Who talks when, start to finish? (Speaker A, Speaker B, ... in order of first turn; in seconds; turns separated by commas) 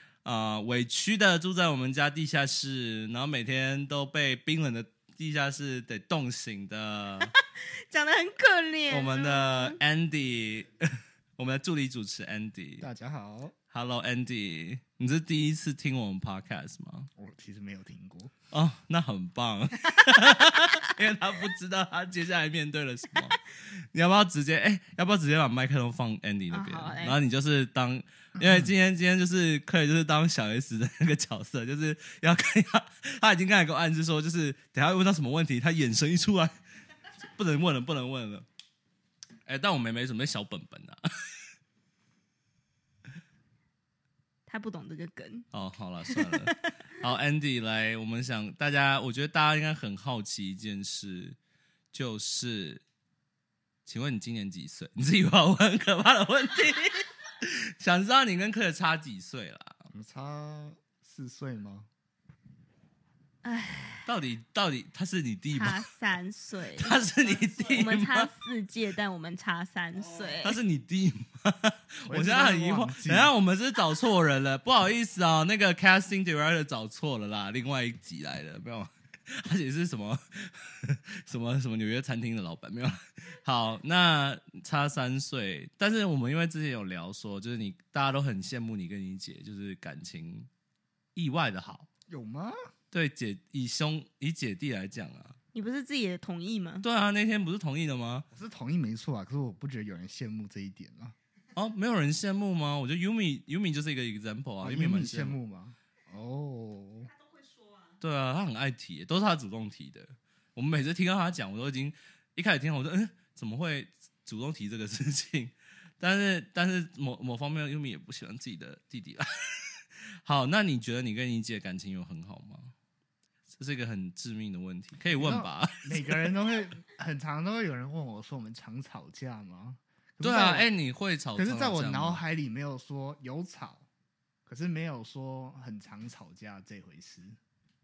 Speaker A: 0.2-7.3, Speaker B: 7.2-9.8, Speaker A: 8.9-12.9, Speaker C: 12.8-13.5, Speaker A: 13.7-17.1, Speaker C: 17.2-18.3, Speaker A: 18.5-36.5, Speaker B: 20.2-20.5, Speaker B: 26.5-27.2, Speaker C: 28.4-28.7, Speaker A: 37.3-38.5, Speaker A: 39.5-41.3, Speaker B: 44.5-45.5, Speaker A: 45.5-51.4, Speaker B: 46.0-46.7, Speaker A: 51.9-52.8, Speaker A: 53.9-59.8, Speaker C: 59.9-61.9, Speaker B: 63.4-64.1, Speaker A: 64.0-65.9, Speaker B: 65.5-67.0, Speaker A: 66.8-68.3, Speaker B: 67.6-70.6, Speaker A: 70.4-90.5, Speaker C: 72.1-73.3, Speaker A: 91.1-91.9, Speaker C: 92.1-92.5, Speaker A: 92.9-95.3, Speaker B: 95.5-96.8, Speaker A: 96.8-98.3, Speaker C: 98.3-101.1, Speaker A: 101.5-105.4, Speaker C: 104.6-107.1, Speaker B: 107.2-107.9, Speaker A: 108.0-122.7, Speaker A: 123.5-126.3, Speaker C: 125.1-130.7, Speaker A: 130.2-132.2, Speaker C: 131.3-133.8, Speaker C: 134.5-137.4